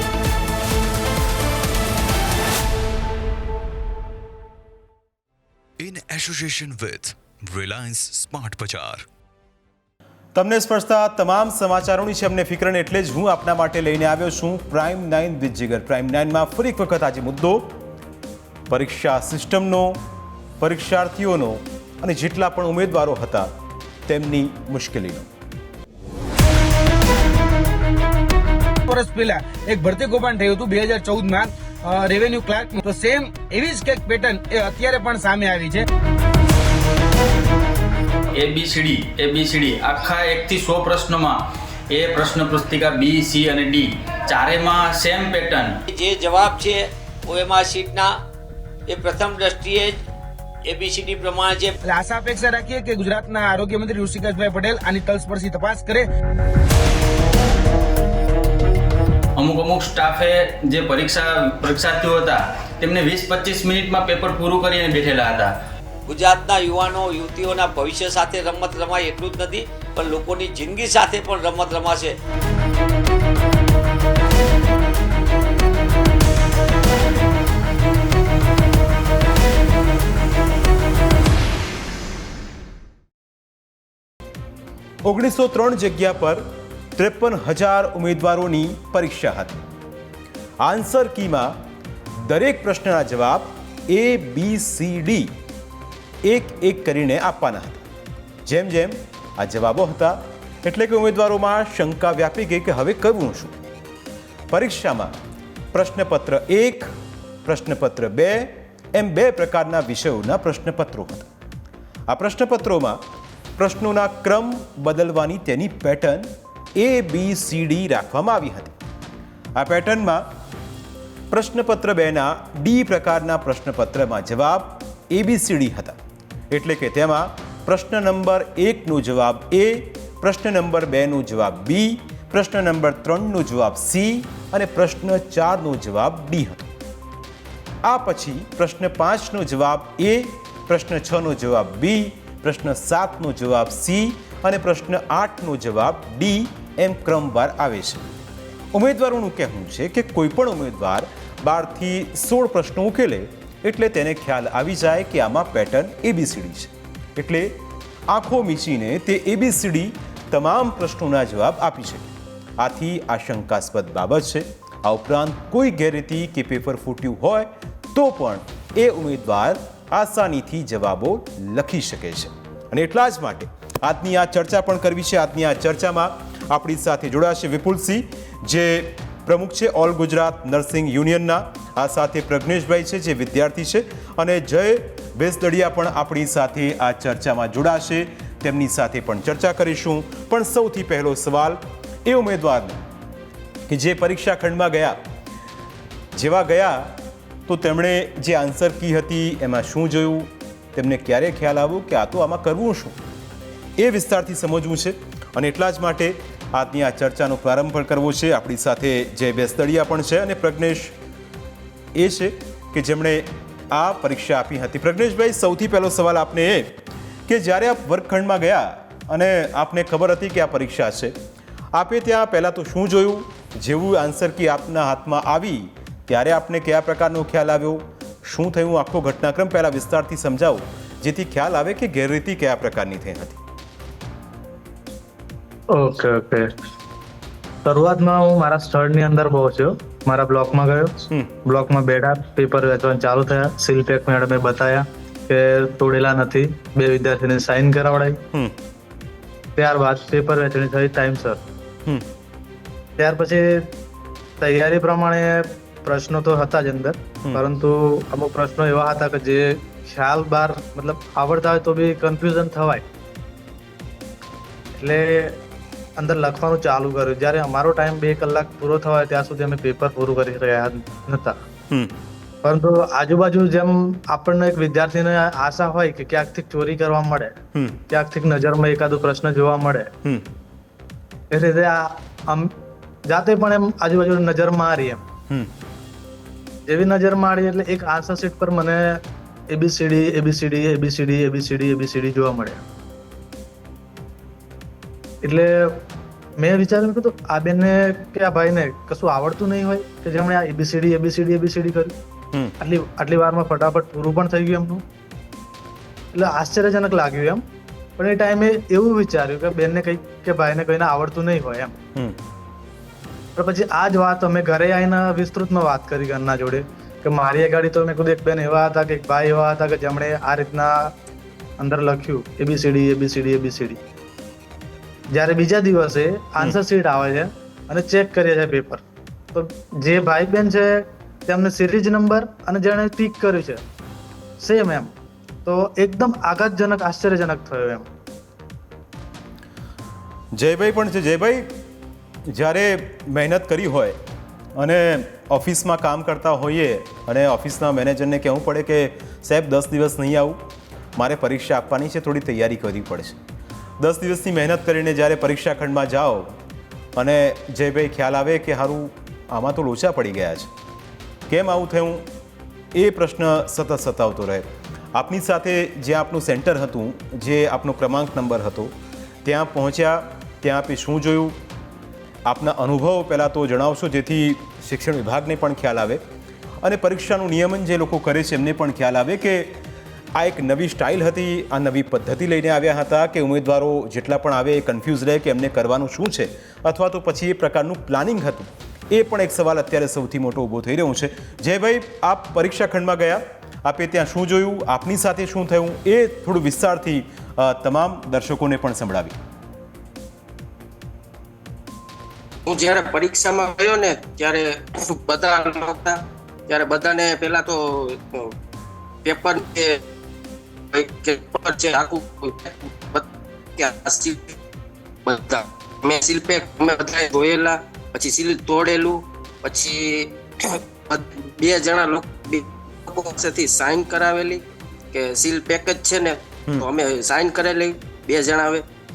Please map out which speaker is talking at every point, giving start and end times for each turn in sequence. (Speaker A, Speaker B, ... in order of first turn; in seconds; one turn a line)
Speaker A: 5.8-9.1
Speaker B: 10.3-17.8
Speaker B: 18.7-20.0
Speaker B: 20.6-23.5
Speaker B: 24.1-25.3
Speaker C: 28.9-35.8
Speaker D: 38.3-41.4
Speaker D: 41.9-45.8
Speaker E: 45.9-48.2
Speaker E: 48.9-50.0
Speaker E: 50.6-51.8
Speaker C: 51.8-56.1
Speaker D: 59.4-65.5
Speaker E: 66.0-72.2
Speaker B: 85.0-89.6
Speaker B: 90.6-91.6
Speaker B: 92.1-95.3
Speaker B: 96.2-97.8
Speaker B: 98.4-103.5
Speaker B: 104.5-105.1
Speaker B: 105.7-106.9
Speaker B: 107.4-111.2
Speaker B: 112.1-113.0
Speaker B: 113.6-118.7
Speaker B: 119.5-120.3
Speaker B: 121.3-126.0
Speaker B: 126.5-136.7
Speaker B: 137.8-148.1
Speaker B: 148.7-192.8
Speaker B: 193.7-195.0
Speaker B: 196.1-203.0
Speaker B: 203.8-210.9
Speaker B: 211.9-221.1
Speaker B: 221.7-233.4
Speaker F: 235.7-236.5
Speaker F: 237.6-248.2
Speaker F: 249.6-251.4
Speaker F: 253.0-253.7
Speaker F: 254.4-262.8
Speaker F: 264.8-265.4
Speaker F: 266.0-271.4
Speaker B: 271.7-272.0
Speaker F: 272.4-277.4
Speaker B: 277.5-277.8
Speaker F: 277.9-279.9
Speaker F: 281.3-282.5
Speaker F: 283.1-285.0
Speaker F: 286.7-292.6
Speaker F: 295.2-295.9
Speaker F: 296.4-301.9
Speaker F: 302.6-304.8
Speaker F: 306.1-307.4
Speaker F: 308.0-311.8
Speaker B: 311.9-312.2
Speaker F: 313.4-320.9
Speaker F: 321.6-323.8
Speaker F: 325.1-328.8
Speaker F: 329.3-333.6
Speaker F: 334.4-334.9
Speaker F: 335.4-337.9
Speaker B: 340.3-341.6
Speaker B: 342.2-344.0
Speaker B: 344.6-350.4
Speaker B: 351.0-353.2
Speaker B: 353.8-356.4
Speaker B: 357.0-360.5
Speaker B: 361.3-362.1
Speaker B: 362.7-371.4
Speaker B: 372.2-376.0
Speaker B: 376.6-379.6
Speaker B: 380.1-399.2
Speaker G: 402.5-408.3
Speaker G: 409.1-409.8
Speaker G: 410.7-414.4
Speaker G: 415.1-424.4
Speaker G: 424.9-428.6